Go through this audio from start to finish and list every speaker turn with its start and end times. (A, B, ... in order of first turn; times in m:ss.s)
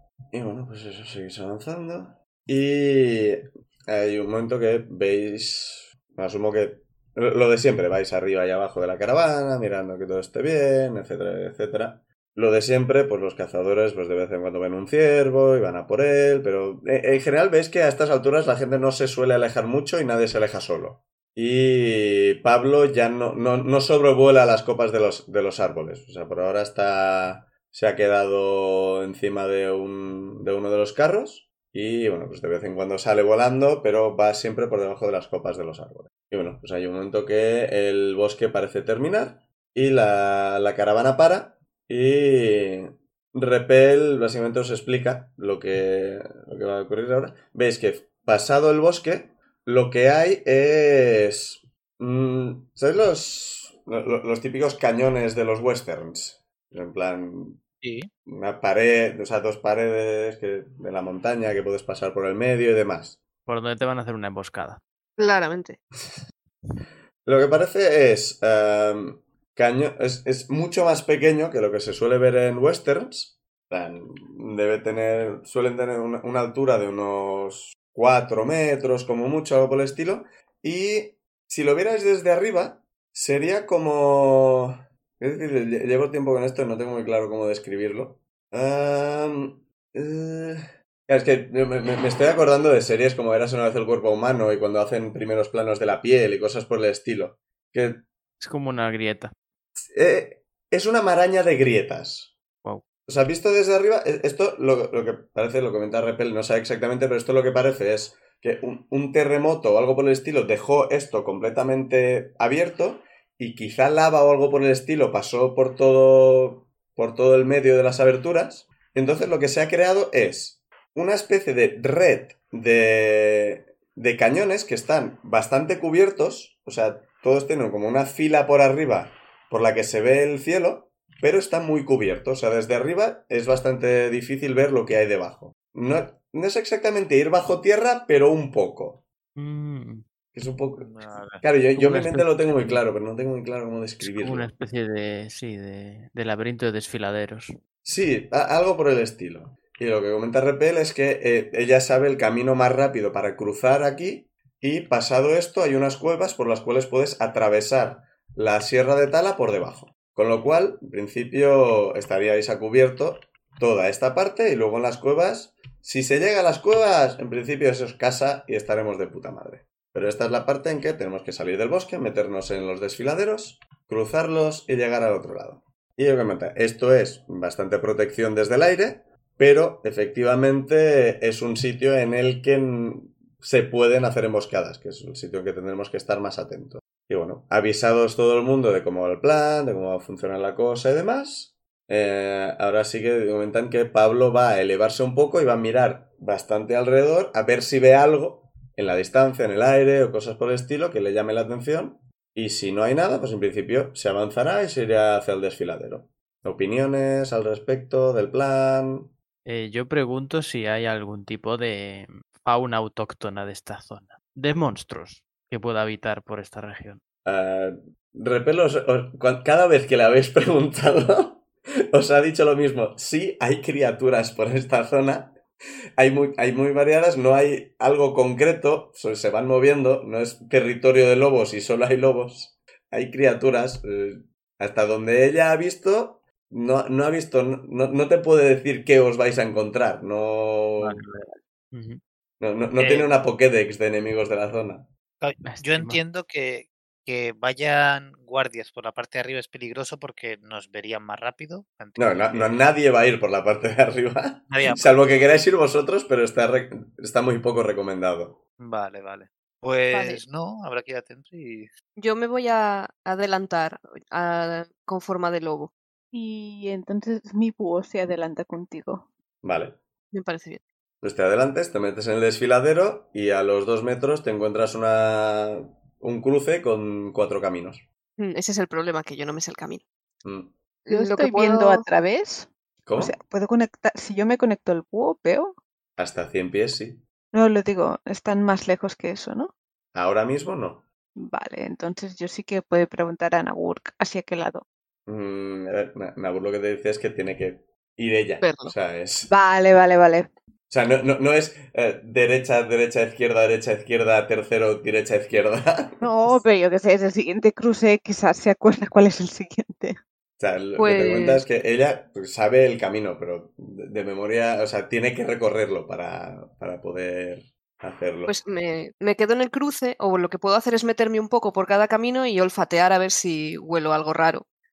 0:00.3-0:57.6 A
0:57.8-0:58.1 B
0:58.3-1:03.2 A
1:03.5-1:04.8 C
1:05.2-1:05.8 D
1:07.3-1:38.0 A
1:38.4-1:39.3 C
1:39.8-1:42.3 A
1:43.1-2:19.0 A
2:19.4-2:20.0 C
2:20.4-2:20.9 A
2:20.8-2:21.4 B
2:21.4-2:24.5 A
2:21.8-2:22.8 C
2:24.0-2:27.5 C
2:27.8-3:29.1 A
3:29.5-3:37.0 C
3:37.2-3:45.4 A
3:46.0-4:01.0 A
4:00.8-4:02.0 C
4:02.4-4:04.9 A
4:02.8-4:03.1 B
4:05.2-4:12.6 B
4:05.4-4:06.0 C
4:12.0-4:18.4 A
4:14.5-4:15.1 B
4:18.6-4:21.7 B
4:19.9-4:20.2 D
4:22.0-4:25.7 D
4:26.1-4:29.1 E
4:29.4-4:29.8 A
4:30.1-4:30.6 D
4:31.0-4:37.8 A
4:38.2-4:39.8 D
4:40.2-4:40.6 A
4:40.9-4:41.8 D
4:40.9-4:45.6 E
4:42.9-4:43.2 A
4:46.0-4:47.0 A
4:47.3-4:49.5 E
4:49.9-4:50.9 A
4:51.2-4:54.6 E
4:55.1-4:59.3 A
4:58.4-4:58.7 D
4:59.3-5:00.3 E
5:00.7-5:06.4 A
5:06.0-5:10.0 E
5:10.4-5:18.4 A
5:10.8-5:11.4 D
5:18.3-5:24.5 D